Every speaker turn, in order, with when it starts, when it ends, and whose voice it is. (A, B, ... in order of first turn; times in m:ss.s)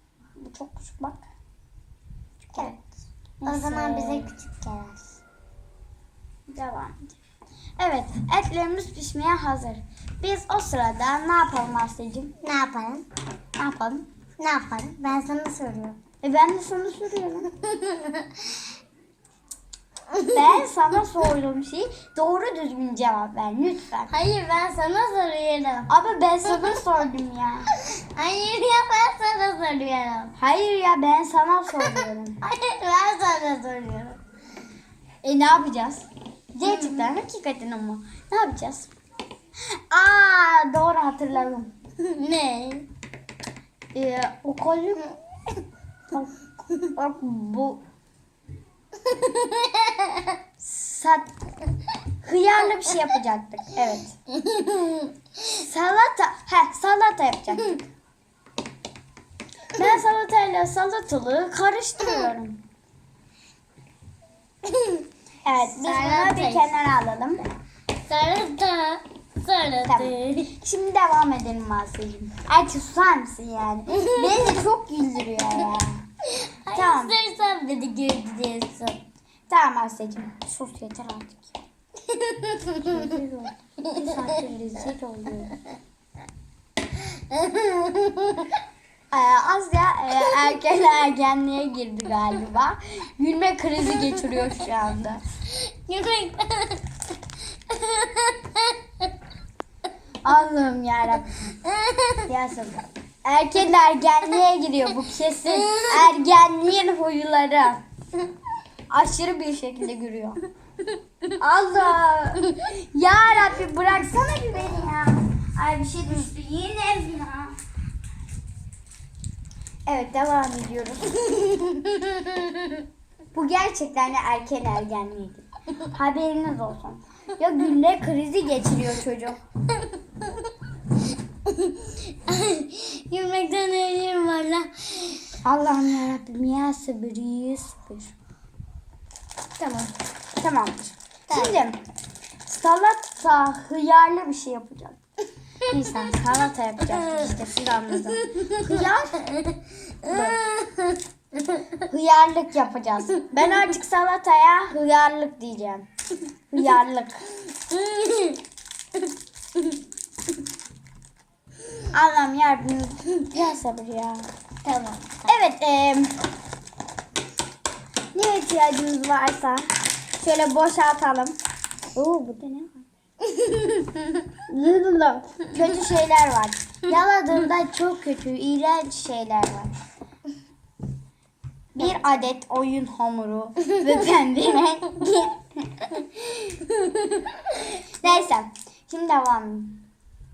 0:00.4-0:01.3 A
0:02.5-0:02.7 A
0:03.4-0:04.3 A
0:03.4-0:05.2 B
0:06.5-0:07.2 A
0:07.8-0:12.3 A
0:12.4-0:13.0 B
0:13.6-0:14.1 A
0:14.4-0:16.0 B
0:16.2-0:17.5 A
0:17.6-0:18.6 B
0:20.1-0:20.4 B
0:20.3-0:24.1 A
0:24.1-0:25.9 B
0:25.9-0:27.7 A
0:27.8-0:30.3 B
0:30.4-0:32.4 A
0:31.8-0:34.2 B
0:35.2-0:36.0 A
0:36.5-0:37.1 B
0:36.6-0:38.9 A
0:39.9-0:41.7 A
0:42.0-0:42.9 B
0:43.9-0:45.0 A
0:46.8-0:47.8 A
0:49.0-0:50.4 B
0:50.6-0:51.3 A
0:52.2-0:54.2 A
0:54.3-0:55.2 B
0:55.5-0:57.8 A
0:59.7-1:02.6 A
1:04.6-1:05.0 B
1:05.4-1:07.4 A
1:05.6-1:06.7 B
1:08.0-1:10.6 B
1:09.8-1:16.0 A
1:13.9-1:14.4 B
1:16.3-1:19.0 B
1:16.7-1:17.1 A
1:19.5-1:21.6 A
1:22.1-1:23.1 B
1:22.8-1:25.6 A
1:23.9-1:24.2 B
1:27.1-1:28.6 B
1:29.1-1:35.2 A
1:35.5-1:37.0 B
1:37.7-1:39.1 B
1:40.2-1:41.3 A
1:41.6-1:42.2 B
1:42.2-1:47.8 A
1:45.5-1:46.1 B
1:48.9-1:50.4 A
1:51.4-1:57.6 A
1:59.9-2:01.6 A
2:01.7-2:02.5 B
2:03.3-2:09.4 A
2:11.4-2:15.3 B
2:15.4-2:18.1 A
2:19.6-2:19.9 B
2:20.4-2:21.8 A
2:21.3-2:21.6 B
2:22.5-2:25.0 A
2:25.6-2:29.2 A
2:25.7-2:26.1 B
2:28.2-2:31.6 B
2:30.0-2:30.4 A
2:31.8-2:35.8 A
2:36.5-2:37.3 A
2:37.7-2:38.4 B
2:41.9-2:44.3 A
2:44.6-2:45.3 B
2:45.3-2:46.1 A
2:48.1-2:49.7 A
2:50.2-2:51.4 A
2:51.9-2:52.8 A
2:53.3-2:54.0 B
2:54.5-2:59.7 A
3:01.8-3:06.6 A
3:06.7-3:07.3 B
3:08.0-3:09.8 A